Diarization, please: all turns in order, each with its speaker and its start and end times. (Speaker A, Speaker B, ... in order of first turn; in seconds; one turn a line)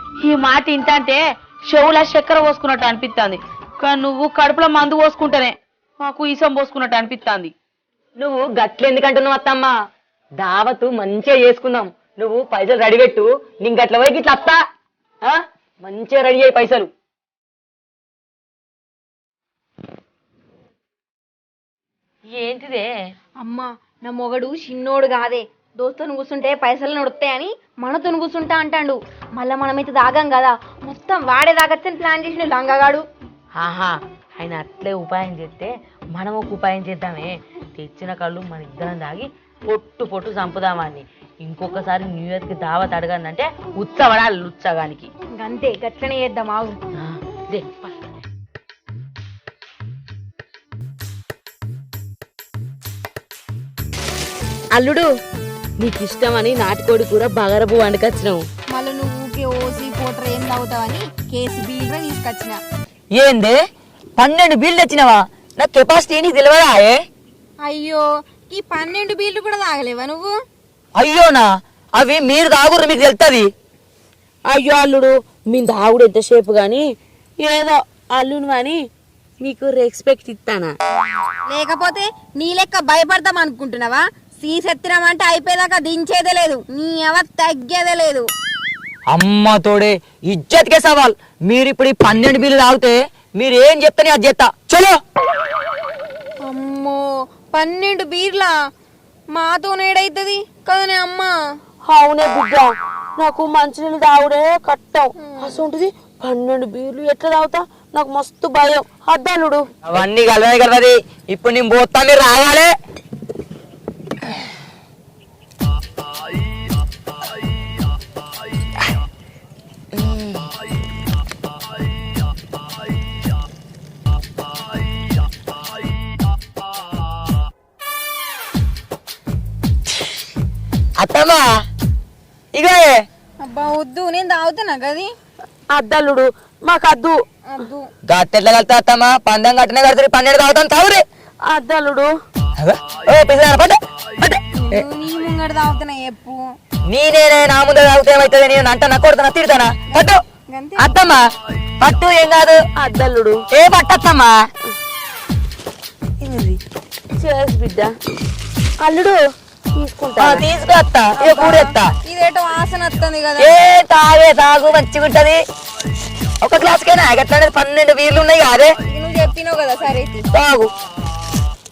Speaker A: 0.2-7.5
Speaker B: 8.2-9.7
Speaker B: 10.4-14.6
Speaker B: 15.2-16.9
Speaker A: 22.3-22.9
Speaker C: 23.4-33.0
Speaker A: 33.6-45.1
Speaker C: 45.4-46.8
Speaker A: 47.0-47.9
Speaker A: 54.7-55.1
Speaker A: 55.8-58.4
Speaker C: 58.7-62.6
Speaker B: 63.1-63.5
Speaker B: 64.2-67.0
Speaker C: 67.7-70.3
Speaker B: 71.0-73.5
Speaker A: 74.5-76.8
Speaker A: 77.4-78.8
Speaker A: 79.4-80.7
Speaker C: 81.5-88.3
Speaker B: 89.1-95.0
Speaker C: 96.5-98.5
Speaker C: 99.3-101.3
Speaker A: 101.8-109.7
Speaker C: 105.2-105.6
Speaker B: 109.8-112.7
Speaker B: 131.0-131.4
Speaker B: 132.5-133.0
Speaker C: 133.4-135.1
Speaker A: 135.7-137.2
Speaker C: 137.5-137.9
Speaker B: 138.1-141.0
Speaker A: 141.4-142.1
Speaker B: 142.6-144.8
Speaker C: 144.6-146.4
Speaker B: 146.9-150.2
Speaker C: 149.9-151.0
Speaker B: 150.8-151.2
Speaker B: 151.8-152.6
Speaker A: 152.8-153.4
Speaker B: 153.5-154.3
Speaker B: 156.2-156.6
Speaker A: 157.2-157.9
Speaker A: 158.8-159.2
Speaker A: 159.7-160.4
Speaker B: 160.2-161.9
Speaker C: 161.2-163.5
Speaker B: 163.4-165.4
Speaker B: 166.4-168.7
Speaker C: 168.8-170.2
Speaker B: 170.3-170.7